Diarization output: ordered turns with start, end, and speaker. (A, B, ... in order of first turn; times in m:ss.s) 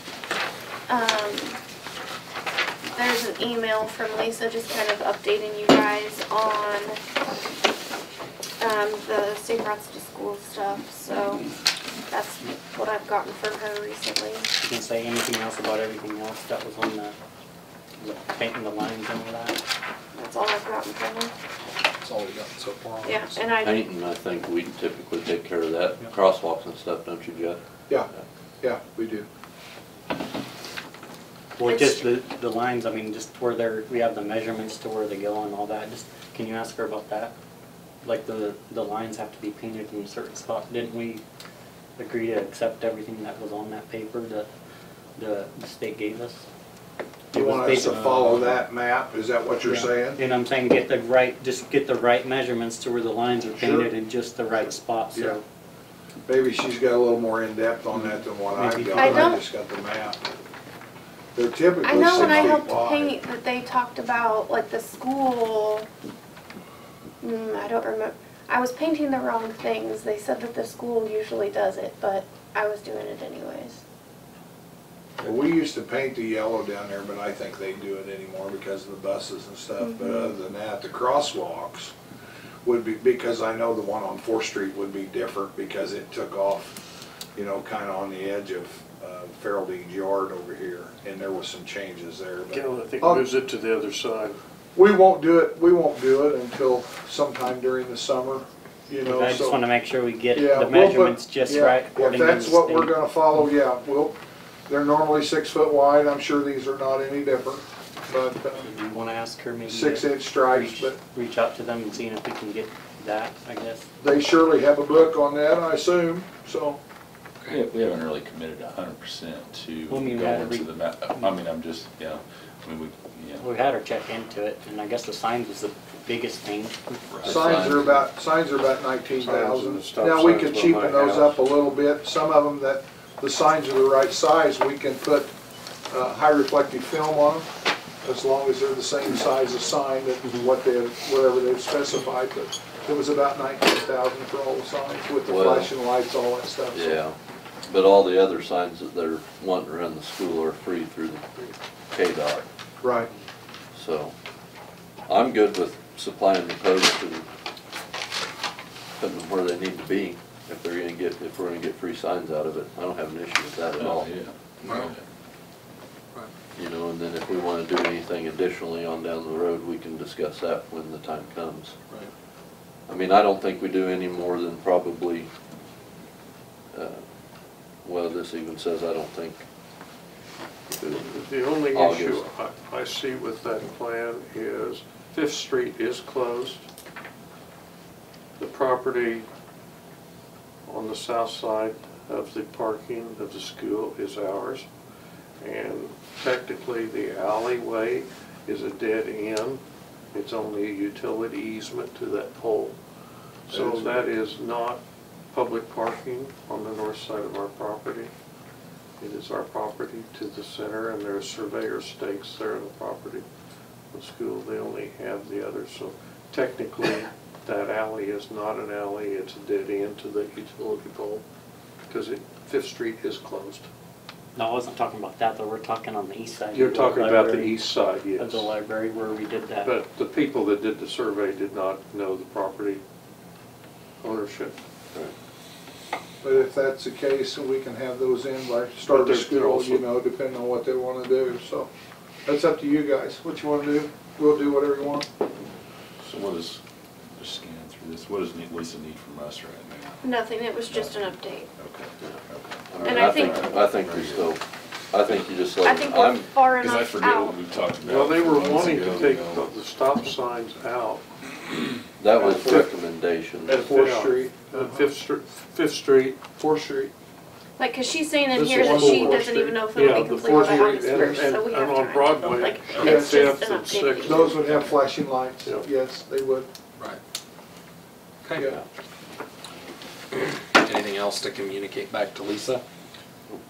0:00.9-0:01.6 A
0:02.9-0:07.0 A
0:08.6-0:11.5 A
0:12.1-0:14.5 A
0:14.6-0:17.2 B
0:18.0-0:19.6 B
0:20.1-0:21.3 A
0:22.0-0:23.5 C
0:23.0-0:23.8 A
0:23.6-0:27.6 D
0:28.6-0:29.3 E
0:31.6-0:37.3 B
0:31.6-0:32.0 A
0:38.0-0:41.2 B
0:42.0-0:44.5 B
0:45.2-0:46.4 B
0:47.3-0:48.6 B
0:47.3-0:50.2 E
0:49.6-0:55.4 B
0:53.5-0:53.9 E
0:54.6-0:55.4 E
0:56.3-1:00.3 E
0:58.5-0:59.4 B
0:59.0-0:59.4 A
1:01.4-1:03.2 E
1:01.8-1:05.9 A
1:07.2-1:13.8 A
1:15.2-1:21.9 E
1:19.8-1:20.3 A
1:22.6-1:26.8 E
1:27.4-1:33.2 E
1:32.5-1:34.4 F
1:34.8-1:39.6 E
1:39.0-1:43.0 B
1:40.3-1:44.2 E
1:44.7-1:48.7 E
1:48.6-1:53.9 B
1:49.7-1:51.0 E
1:54.0-1:56.8 E
1:57.5-2:03.4 G
1:59.9-2:01.3 B
2:03.4-2:06.8 B
2:07.1-2:07.6 G
2:07.2-2:15.3 E
2:07.2-2:08.1 D
2:09.2-2:11.4 F
2:15.9-2:17.5 E
2:18.0-2:27.0 E
2:25.3-2:25.7 D
2:26.7-2:32.4 D
2:32.8-2:33.1 E
2:33.7-2:34.1 D
2:35.1-2:37.3 D
2:39.0-2:44.1 D
2:43.8-2:45.0 G
2:44.6-2:44.9 C
2:46.6-2:51.8 D
2:52.9-2:55.3 D
2:56.7-2:57.0 D
2:57.8-2:59.4 D
3:00.7-3:06.6 F
3:01.7-3:02.3 D
3:08.4-3:09.3 F
3:10.7-3:14.7 F
3:15.4-3:19.6 F
3:20.1-3:22.8 F
3:23.5-3:24.8 F
3:23.5-3:24.0 E
3:25.3-3:28.1 F
3:29.0-3:33.3 F
3:33.9-3:41.2 F
3:41.9-3:43.7 F
3:44.4-3:47.6 B
3:46.5-3:48.5 F
3:48.2-3:49.8 B
3:49.6-3:52.8 F
3:54.0-3:54.6 F
3:56.2-4:01.7 E
3:58.9-3:59.9 F
4:02.3-4:05.1 E
4:06.0-4:06.6 G
4:07.2-4:14.4 G
4:10.0-4:11.5 A
4:12.7-4:16.3 D
4:12.8-4:13.6 A
4:15.6-4:17.4 A
4:16.6-4:19.5 G
4:17.8-4:21.0 F
4:22.0-4:23.7 D
4:22.2-4:22.7 E
4:23.5-4:24.9 E
4:23.5-4:26.2 F
4:26.4-4:26.9 E
4:27.6-4:34.4 A
4:28.3-4:34.8 F
4:28.5-4:29.2 E
4:32.8-4:33.3 E
4:34.0-4:36.5 E
4:38.2-4:38.5 C
4:40.1-4:42.6 C